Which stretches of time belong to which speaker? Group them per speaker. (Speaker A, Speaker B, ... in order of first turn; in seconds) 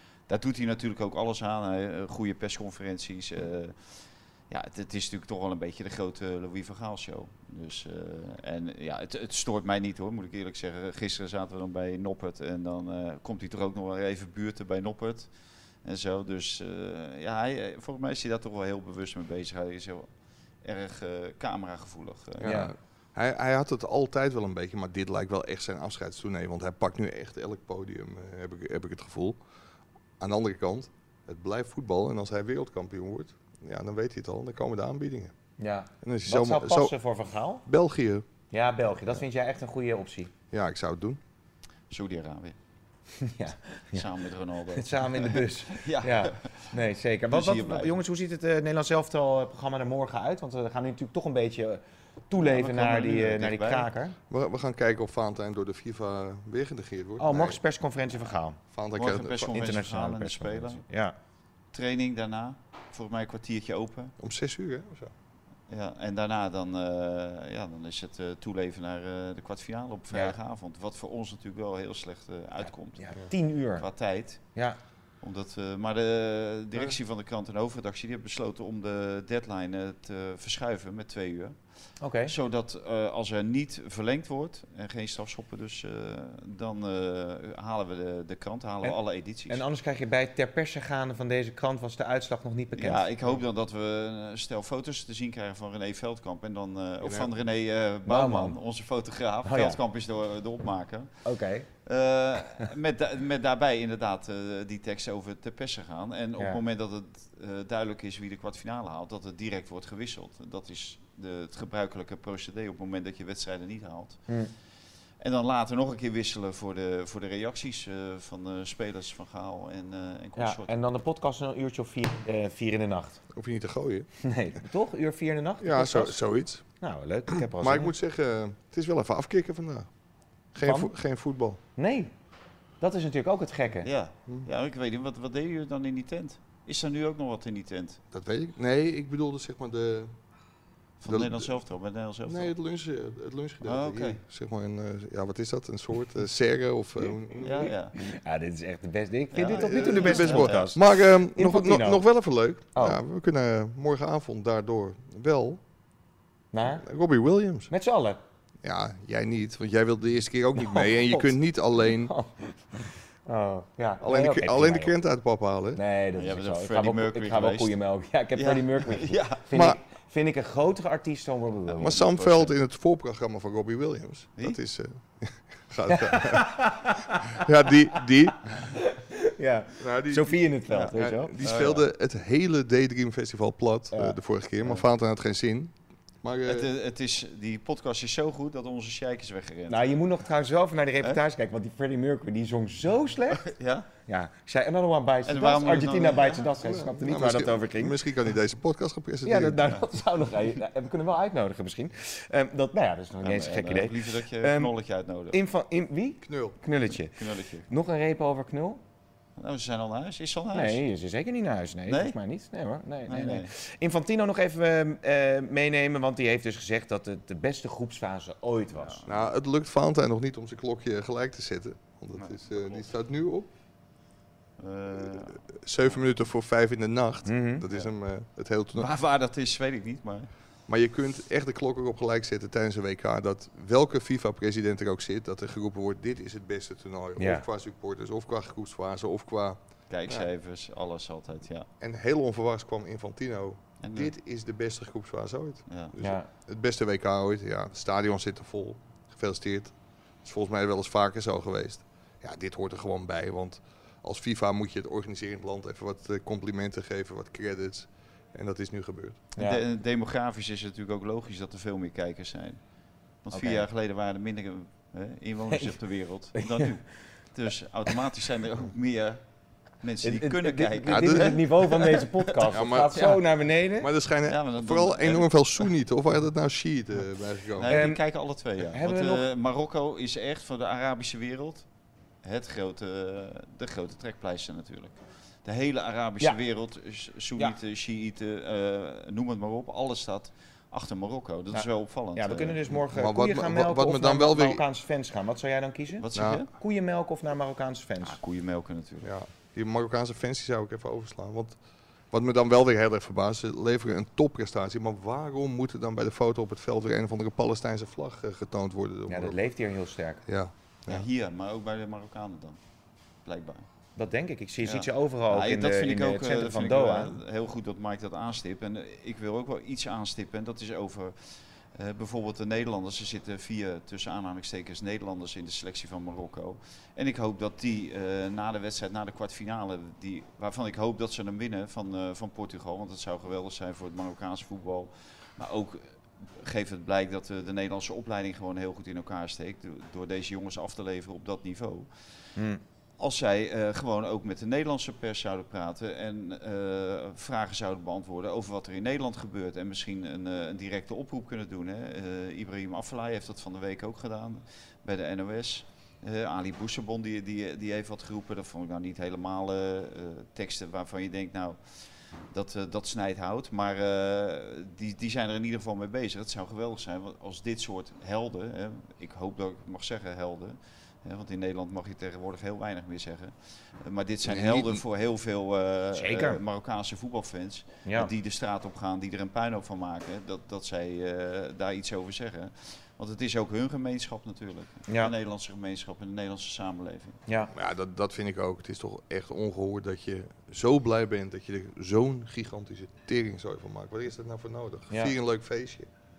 Speaker A: 0.3-15.3, 15.8-20.1, 20.6-22.5, 41.9-42.6, 43.9-46.7, 47.3-48.0, 52.4-53.9, 59.0-60.8, 61.7-64.1, 65.7-73.0, 73.8-74.5, 75.2-81.6, 82.2-89.6, 92.8-101.2, 101.9-114.3, 115.2-120.7, 133.8-138.0, 141.0-142.5, 143.6-144.2, 147.4-147.9, 149.3-150.7, 166.2-167.7, 168.3-169.4, 171.8-172.5, 180.7-181.8, 186.5-189.9, 193.4-193.9, 195.2-196.5, 203.2-205.4, 206.9-207.7, 209.4-210.8, 211.9-212.2, 213.1-213.5, 218.7-219.3, 222.2-222.9, 224.6-225.9, 228.8-230.3, 239.9-241.7, 243.8-244.1, 245.7-246.0, 259.4-262.6, 263.2-269.2, 269.8-272.5, 274.3-275.7, 277.6-281.7, 282.2-292.6, 296.0-296.5, 298.0-299.1, 310.9-312.6, 313.2-313.7, 314.6-341.9, 343.0-387.2
Speaker B: 22.4-29.4, 30.2-35.3, 36.0-37.0, 37.7-38.3, 40.5-41.2, 54.3-57.6, 58.7-59.6, 64.2-65.1, 97.0-97.3, 123.3-124.1, 125.6-126.6, 127.3-129.9, 130.5-131.6, 138.1-140.1, 141.1-141.5, 142.3-147.7, 149.5-155.6, 156.7-157.7, 158.6-162.1, 164.0-165.8, 169.5-169.8, 171.8-176.7, 177.3-178.4, 179.8-186.7, 196.6-199.7, 206.2-206.6, 219.1-223.5, 225.6-228.9, 230.7-240.3, 241.8-259.2, 270.9-271.4, 272.5-277.8, 292.9-294.6, 296.1-296.4, 299.0-301.6, 302.1-309.4, 310.3-311.1, 374.2-374.8, 387.5-395.9
Speaker C: 22.4-22.7, 35.6-37.6, 38.5-40.3, 43.2-44.0, 44.8-54.2, 57.2-58.6, 59.5-61.1, 70.1-70.4, 73.0-73.9, 82.0-82.3, 88.8-93.1, 98.1-98.6, 99.5-99.8, 101.2-101.7, 120.4-123.2, 124.2-126.2, 126.8-127.9, 130.6-130.9, 131.8-132.1, 132.8-133.9, 147.7-152.1, 152.7-153.0, 156.5-156.8, 157.7-158.2, 160.6-164.9, 165.8-172.0, 175.9-177.4, 178.5-181.4, 183.9-184.2, 189.7-193.5, 194.1-198.0, 199.2-204.7, 205.3-207.2, 207.7-208.8, 210.5-219.0, 227.3-227.6, 237.2-237.5, 246.0-246.3, 259.4-259.6, 263.3-263.7, 265.5-265.8, 266.4-266.6, 270.0-273.9, 277.7-278.0, 278.7-279.3, 291.5-298.2, 309.1-310.2, 314.0-317.2, 342.4-342.6, 375.9-376.4, 377.9-378.1